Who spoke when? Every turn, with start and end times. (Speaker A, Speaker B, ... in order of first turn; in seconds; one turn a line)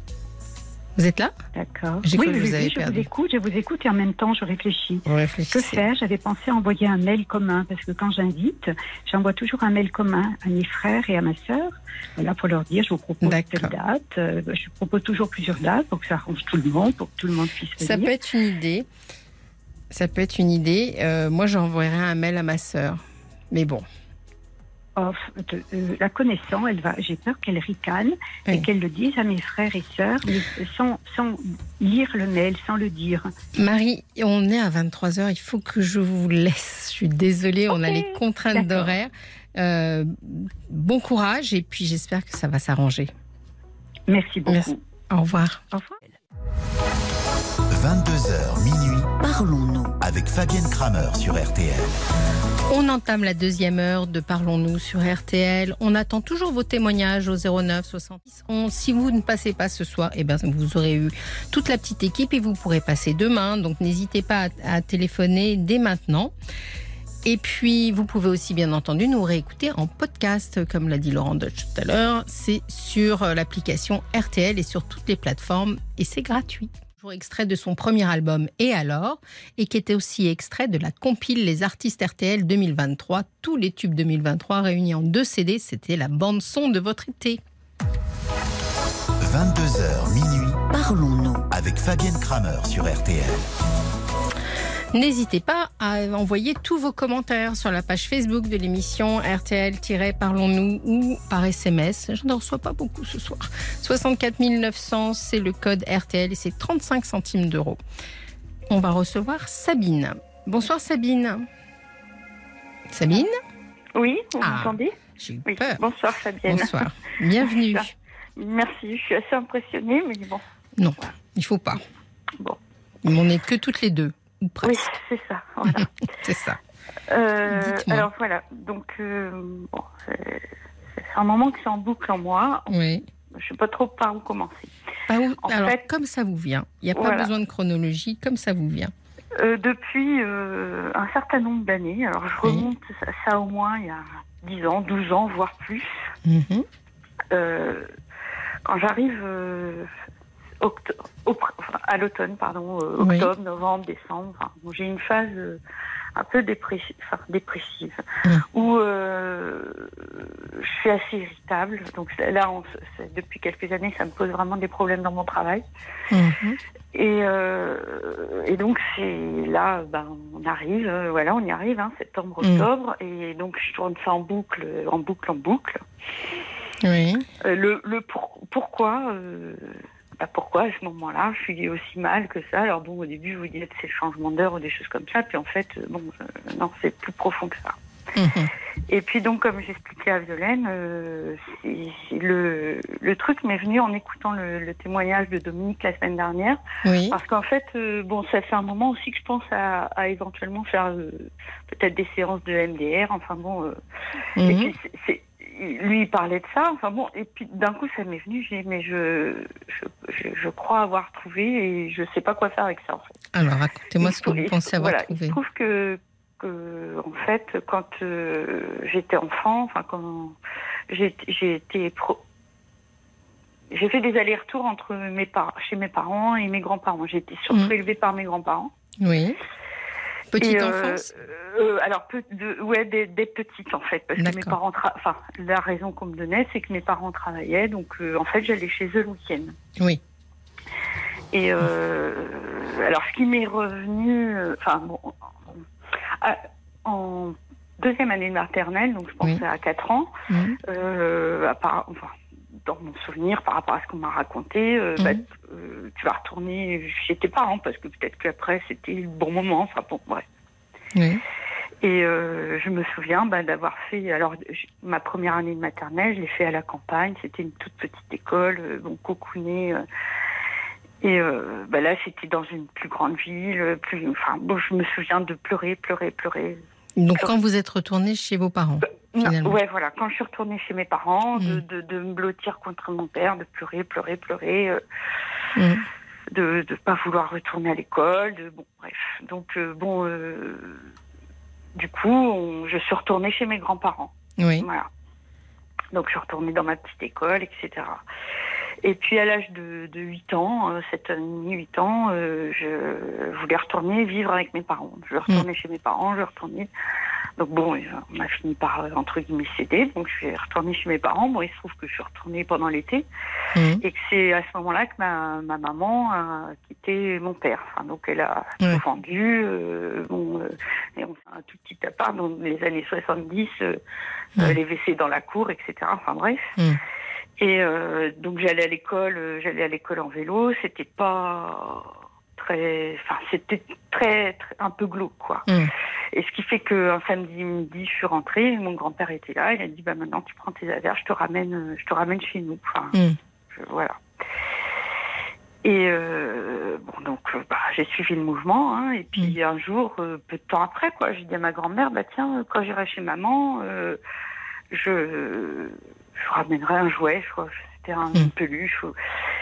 Speaker A: 0.9-1.4
Speaker B: 1.5-18.1
Speaker A: 2.0-3.1
Speaker A: 5.1-5.8
Speaker A: 13.2-13.7
Speaker A: 17.8-18.9
Speaker A: 19.9-23.8
Speaker B: 24.9-33.3
Speaker A: 33.6-43.1
Speaker B: 38.5-38.9
Speaker B: 44.1-44.7
Speaker A: 44.5-45.9
Speaker C: 47.7-52.0
Speaker A: 52.7-66.3
Speaker A: 67.2-87.4
Speaker C: 89.2-93.5
Speaker A: 94.9-107.8
Speaker A: 108.7-111.5
Speaker A: 112.9-113.4
Speaker D: 113.9-114.9
Speaker A: 114.4-115.8
Speaker D: 115.5-116.8
Speaker A: 116.4-117.9
Speaker D: 117.4-120.4
Speaker A: 120.8-121.8
Speaker A: 123.0-124.9
Speaker D: 124.6-125.9
Speaker A: 125.7-126.6
Speaker D: 127.1-132.7
Speaker A: 127.5-128.1
Speaker A: 132.7-133.0
Speaker D: 133.3-134.7
Speaker A: 135.1-138.9
Speaker D: 135.4-135.8
Speaker D: 136.9-137.3
Speaker D: 139.4-146.0
Speaker A: 142.4-142.7
Speaker A: 146.2-146.7
Speaker D: 147.3-147.9
Speaker D: 148.6-149.9
Speaker D: 150.6-155.6
Speaker A: 153.0-153.3
Speaker D: 156.2-158.0
Speaker D: 158.5-165.6
Speaker A: 166.1-166.6
Speaker D: 166.9-175.8
Speaker A: 172.4-172.7
Speaker A: 176.8-177.2
Speaker D: 177.4-187.8
Speaker A: 188.1-188.5
Speaker D: 188.9-196.6
Speaker A: 196.8-197.2
Speaker D: 197.1-203.8
Speaker A: 204.4-204.7
Speaker D: 204.4-213.1
Speaker A: 213.3-215.4
Speaker D: 214.0-220.3
Speaker D: 220.9-222.2
Speaker D: 223.7-228.7
Speaker A: 227.5-227.7
Speaker A: 229.0-229.4
Speaker A: 230.3-231.1
Speaker D: 230.4-239.6
Speaker A: 234.2-234.6
Speaker D: 241.3-245.1
Speaker D: 246.2-260.2
Speaker A: 250.3-250.6
Speaker A: 255.0-255.2
Speaker A: 260.9-261.2
Speaker D: 261.8-269.8
Speaker D: 271.0-276.6
Speaker A: 277.0-279.6
Speaker D: 279.1-284.8
Speaker A: 285.6-285.8
Speaker D: 286.3-290.8
Speaker D: 291.8-294.9
Speaker A: 294.4-294.7
Speaker D: 295.9-298.0
Speaker D: 298.8-306.7
Speaker D: 307.4-313.1
Speaker A: 313.5-313.8
Speaker D: 313.8-323.8
Speaker D: 324.4-326.6
Speaker D: 327.4-335.4
Speaker D: 336.1-343.0
Speaker A: 342.9-343.2
Speaker D: 343.5-344.0
Speaker D: 345.6-354.0
Speaker D: 354.7-358.9